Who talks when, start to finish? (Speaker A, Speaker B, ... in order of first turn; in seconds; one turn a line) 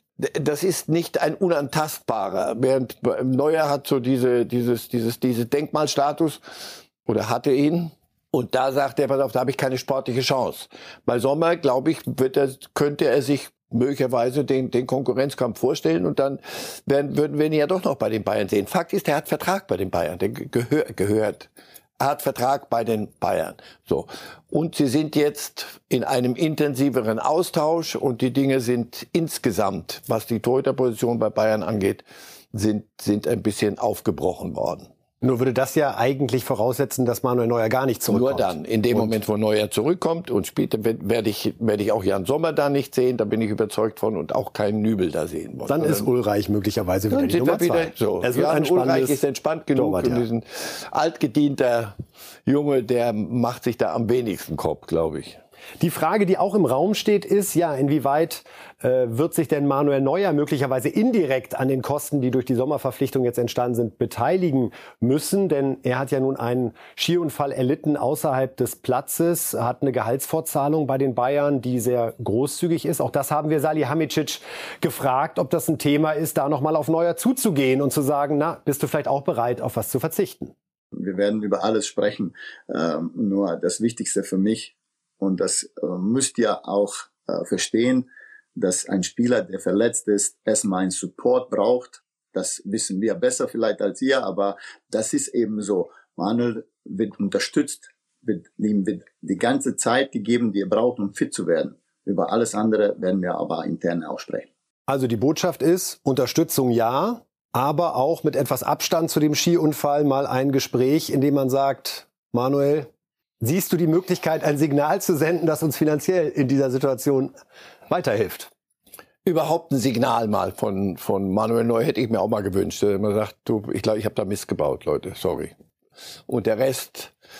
Speaker A: 0.2-6.4
Speaker A: 7.0-34.9
Speaker B: 35.2-39.2
Speaker A: 38.1-46.1
Speaker B: 45.7-49.2
Speaker A: 47.1-52.0
Speaker B: 49.8-50.2
Speaker A: 52.5-55.4
Speaker B: 55.8-80.5
Speaker C: 81.0-104.5
Speaker B: 104.9-112.9
Speaker B: 113.4-117.3
Speaker B: 117.9-118.5
Speaker A: 119.2-125.5
Speaker A: 126.3-127.1